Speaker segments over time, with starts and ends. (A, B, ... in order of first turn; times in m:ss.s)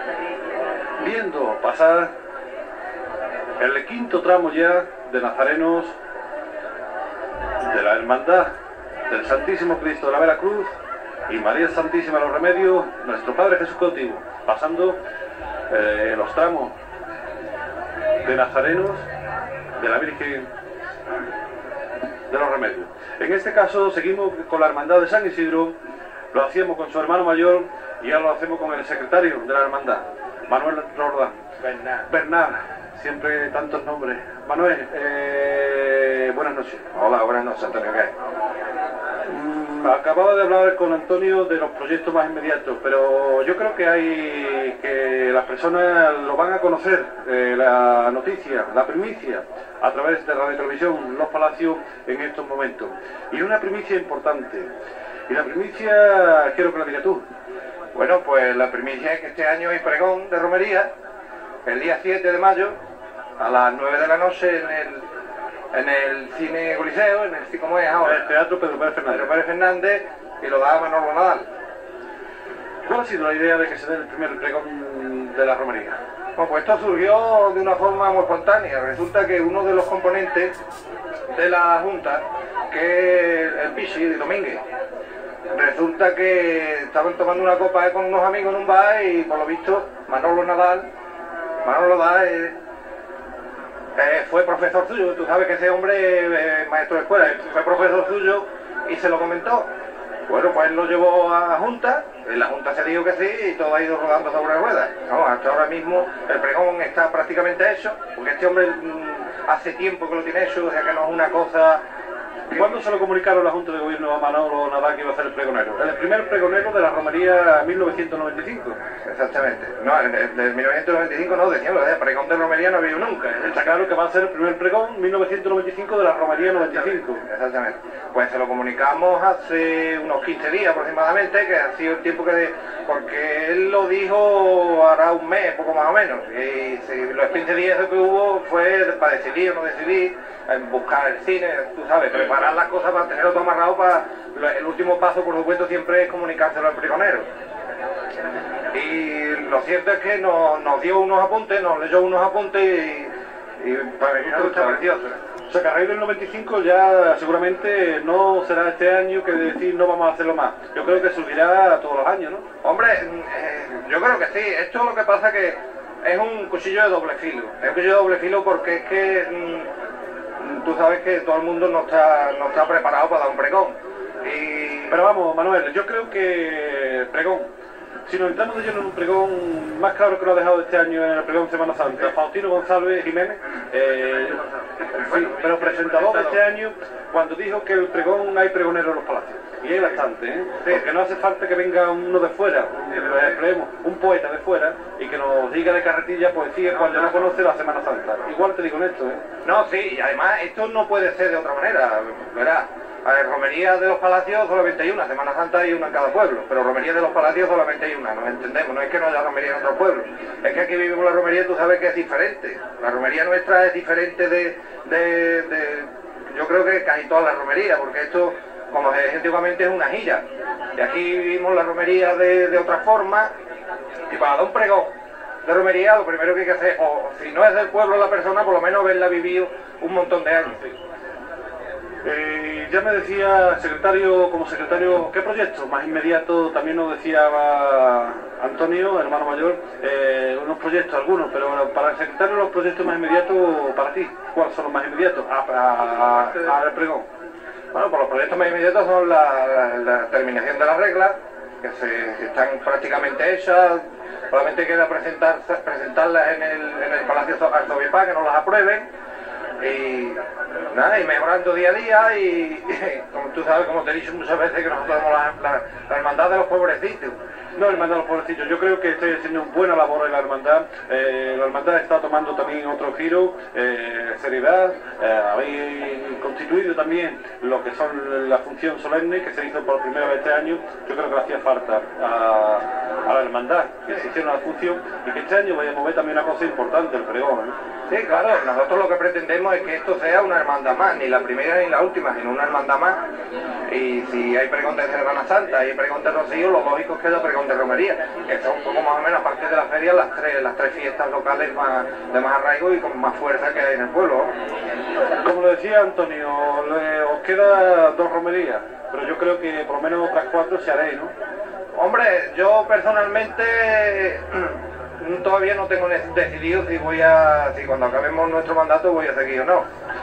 0:01.0-0:02.1 A
0:03.6-0:06.0 A
0:07.6-0:08.6 A
0:09.1-0:10.7 A
0:11.3-0:15.0 A
0:15.7-0:16.7 A
0:18.2-0:19.0 A
0:19.8-0:20.5 A
0:22.3-0:25.7 A
0:26.3-0:31.4 A
0:31.6-0:32.1 B
0:32.1-0:36.9 A
0:36.9-0:38.1 B
0:39.3-0:54.7 A
0:55.3-0:57.2 A
0:57.9-1:00.9 B
1:01.6-1:02.8 B
1:03.4-1:05.1 B
1:05.7-1:08.3 B
1:08.0-1:09.3 A
1:09.1-1:11.5 B
1:12.8-1:16.0 A
1:16.4-1:20.5 B
1:21.3-1:24.6 B
1:25.5-1:30.9 B
1:31.6-1:32.6 B
1:34.0-1:39.7 B
1:40.3-1:51.8 B
1:52.5-1:58.8 A
1:59.0-2:03.9 B
2:03.4-2:07.3 A
2:06.8-2:27.3 B
2:28.7-2:35.2 B
2:34.2-2:34.8 A
2:35.5-2:42.4 A
2:42.6-2:49.7 B
2:50.4-2:55.0 B
2:54.9-2:57.5 A
2:58.0-3:04.4 A
3:04.9-3:06.4 B
3:05.0-3:19.2 A
3:19.4-3:43.3 B
3:44.1-3:44.9 B
3:45.4-3:50.7 B
3:52.0-4:07.1 A
4:07.7-4:18.9 B
4:19.6-4:27.2 B
4:27.6-4:47.5 A
4:47.9-4:53.0 B
4:53.6-5:04.3 B
5:05.2-5:11.1 A
5:11.7-5:19.6 B